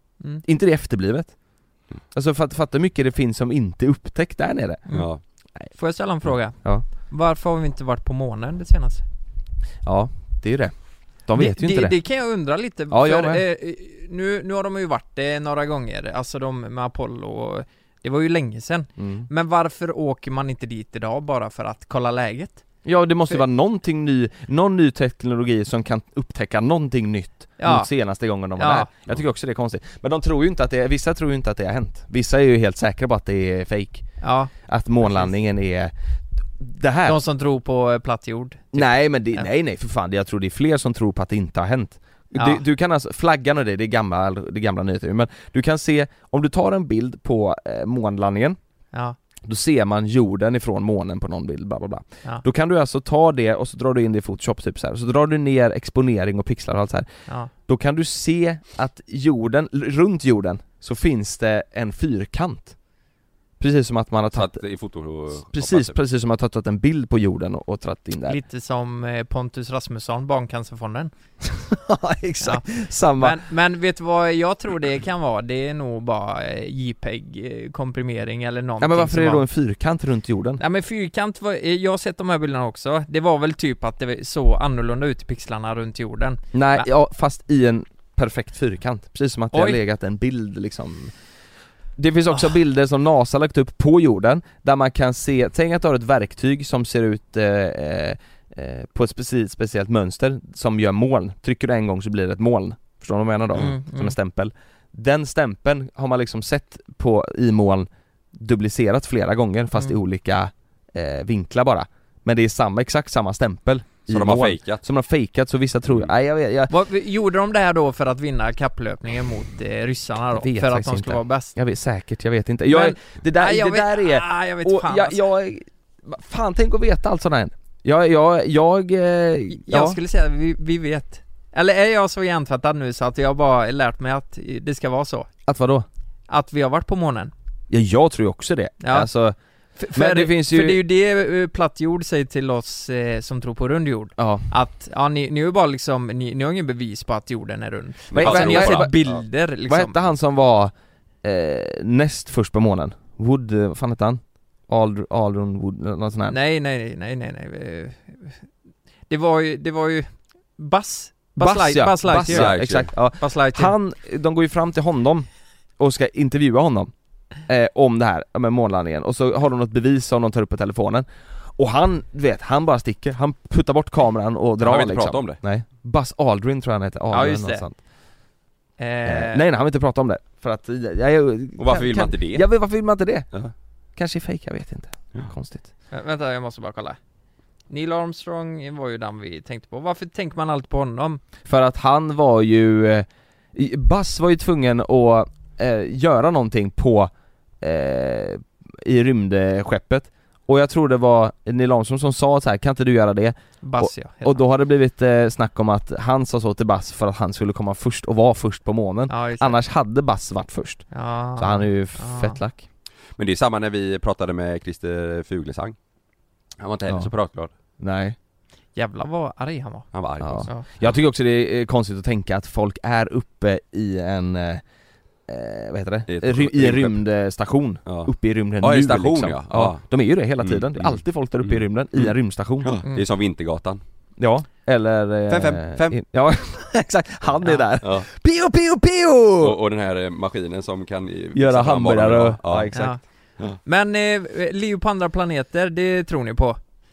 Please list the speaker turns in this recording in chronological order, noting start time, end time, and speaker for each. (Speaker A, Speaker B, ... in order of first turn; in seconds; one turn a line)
Speaker A: 0.4-1.4
Speaker A: 2.1-4.8
Speaker B: 4.9-5.2
Speaker C: 5.7-9.0
Speaker A: 9.8-10.7
Speaker A: 11.2-11.9
Speaker C: 11.3-22.6
Speaker A: 12.9-13.4
Speaker A: 19.0-19.3
Speaker A: 22.8-34.1
Speaker C: 27.6-27.9
Speaker C: 28.6-28.9
Speaker C: 34.2-35.3
Speaker A: 34.6-35.9
Speaker A: 36.5-37.2
Speaker C: 37.0-39.5
Speaker A: 38.7-48.6
Speaker C: 42.3-42.6
Speaker A: 49.4-57.1
Speaker A: 57.6-62.7
Speaker A: 63.6-64.6
Speaker B: 64.3-65.9
Speaker A: 65.5-68.4
Speaker C: 68.2-71.1
Speaker A: 71.4-73.4
Speaker C: 72.4-79.5
Speaker A: 78.8-80.6
Speaker C: 80.6-86.9
Speaker A: 86.5-91.1
Speaker C: 89.5-89.8
Speaker A: 92.0-116.7
Speaker C: 103.5-104.1
Speaker B: 114.1-114.8
Speaker C: 116.7-121.5
Speaker A: 120.3-130.0
Speaker C: 122.7-125.2
Speaker C: 129.5-135.3
Speaker A: 135.4-135.8
Speaker C: 136.3-137.3
Speaker A: 137.7-139.3
Speaker C: 138.8-139.1
Speaker C: 139.8-149.9
Speaker A: 139.9-140.8
Speaker A: 144.2-144.5
Speaker B: 148.1-149.2
Speaker A: 148.1-149.1
Speaker A: 149.7-156.3
Speaker C: 156.3-158.4
Speaker C: 159.1-163.7
Speaker A: 161.4-165.3
Speaker B: 162.2-162.9
Speaker A: 165.8-166.9
Speaker A: 167.4-177.8
Speaker B: 174.6-175.4
Speaker C: 177.1-177.6
Speaker C: 178.8-179.4
Speaker A: 179.0-183.3
Speaker B: 181.6-182.4
Speaker A: 183.9-185.7
Speaker C: 185.9-187.0
Speaker C: 187.7-191.2
Speaker A: 191.4-212.6
Speaker C: 203.6-204.4
Speaker C: 209.1-209.6
Speaker C: 210.9-212.4
Speaker B: 213.2-215.8
Speaker B: 216.6-217.5
Speaker A: 217.8-218.2
Speaker C: 218.8-219.9
Speaker B: 219.9-220.9
Speaker A: 220.2-224.6
Speaker A: 225.3-232.8
Speaker B: 226.1-227.0
Speaker B: 227.8-229.8
Speaker B: 230.4-233.8
Speaker A: 234.2-239.6
Speaker B: 235.3-236.0
Speaker B: 237.8-238.1
Speaker B: 239.4-242.7
Speaker A: 241.3-243.0
Speaker C: 242.7-243.0
Speaker C: 243.6-246.6